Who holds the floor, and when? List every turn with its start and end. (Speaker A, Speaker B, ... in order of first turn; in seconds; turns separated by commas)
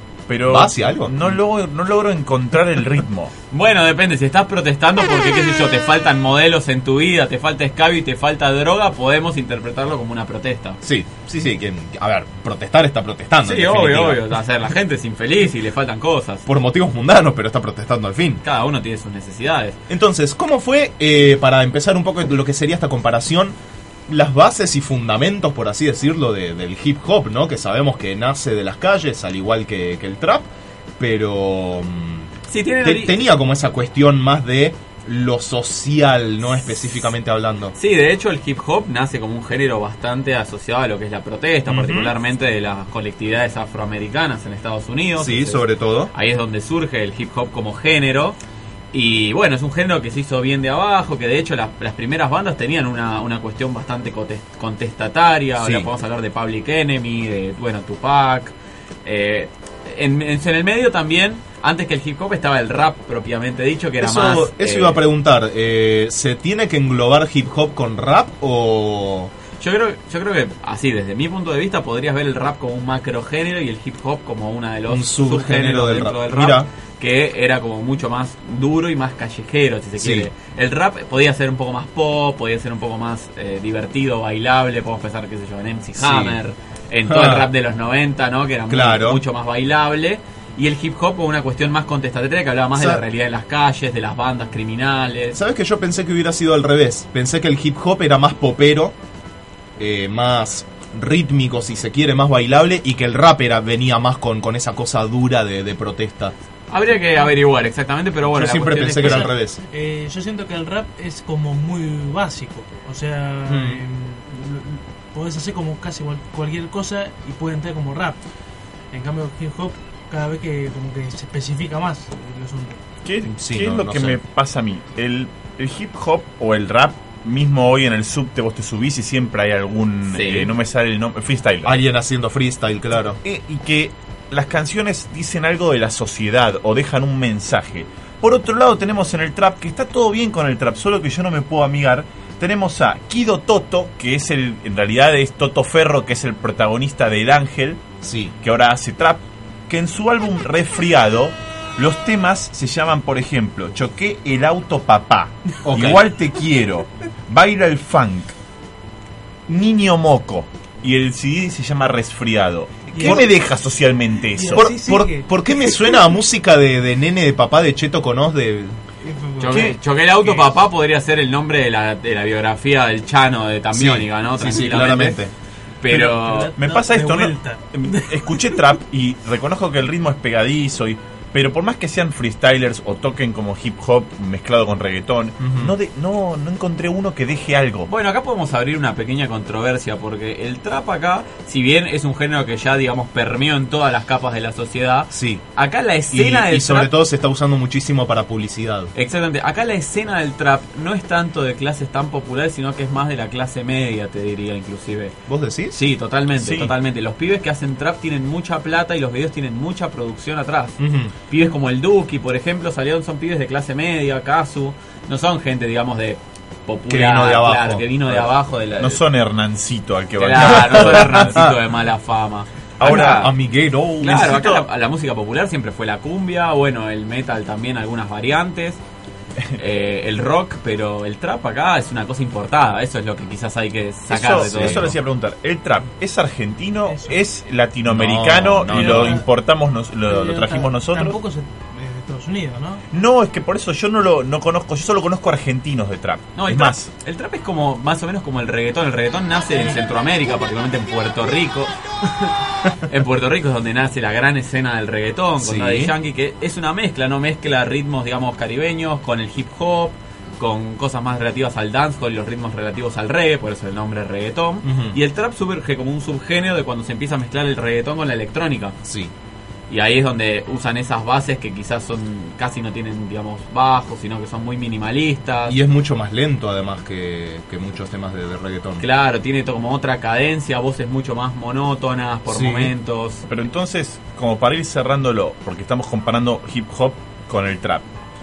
Speaker A: 0.3-3.3, Speaker B: 0.4-1.4, Speaker C: 3.5-10.8, Speaker B: 10.8-14.2, Speaker C: 13.4-16.4, Speaker B: 16.4-18.4, Speaker C: 18.4-19.8, Speaker B: 19.9-23.6, Speaker B: 24.1-30.5, Speaker B: 31.0-32.3, Speaker C: 32.5-33.2, Speaker B: 32.8-37.7, Speaker C: 37.8-48.4, Speaker B: 41.7-42.1, Speaker B: 45.2-46.1, Speaker C: 48.9-58.5, Speaker B: 55.6-55.9, Speaker C: 59.0-65.0, Speaker B: 64.0-69.3, Speaker C: 69.6-95.3, Speaker B: 74.9-76.7, Speaker B: 80.0-80.3, Speaker B: 86.0-86.4, Speaker B: 87.1-87.5, Speaker B: 88.7-89.2, Speaker B: 92.7-93.0, Speaker B: 95.3-98.9, Speaker B: 99.8-106.3, Speaker C: 106.7-109.3, Speaker B: 108.3-109.6, Speaker D: 109.0-118.2, Speaker B: 113.5-113.8, Speaker D: 118.9-122.8, Speaker A: 123.0-131.7, Speaker B: 123.4-124.2, Speaker C: 130.1-130.5, Speaker B: 131.6-133.2, Speaker A: 133.2-147.8, Speaker B: 148.0-148.3, Speaker A: 148.4-158.3, Speaker B: 155.6-156.1, Speaker A: 159.5-164.7, Speaker D: 162.9-163.3, Speaker B: 163.0-163.3, Speaker D: 164.3-166.0, Speaker B: 164.5-168.8, Speaker D: 169.0-169.7, Speaker C: 169.4-175.2, Speaker A: 169.5-170.4, Speaker B: 173.7-175.3, Speaker C: 175.8-176.5, Speaker D: 175.9-178.6, Speaker A: 176.6-187.9, Speaker B: 185.4-185.7, Speaker C: 187.9-196.9, Speaker B: 195.1-195.4, Speaker B: 196.1-198.9, Speaker C: 198.9-205.1, Speaker B: 205.3-205.8, Speaker C: 205.7-219.0, Speaker A: 206.3-206.7, Speaker B: 210.8-211.1, Speaker B: 216.9-218.2, Speaker A: 218.8-221.5, Speaker C: 220.2-223.3, Speaker B: 220.4-221.5, Speaker A: 222.8-224.7, Speaker B: 222.8-224.1, Speaker C: 224.0-228.8, Speaker C: 229.6-234.9, Speaker A: 234.1-241.2, Speaker B: 234.3-234.9, Speaker D: 236.9-237.2, Speaker B: 237.9-239.2, Speaker D: 238.7-239.2, Speaker D: 240.1-242.8, Speaker A: 242.9-246.9, Speaker C: 246.3-268.8, Speaker B: 255.4-255.9, Speaker B: 264.6-265.0, Speaker B: 268.8-269.1, Speaker C: 269.7-275.6, Speaker B: 275.4-278.8, Speaker C: 278.8-283.2, Speaker B: 282.3-282.7, Speaker A: 283.3-287.8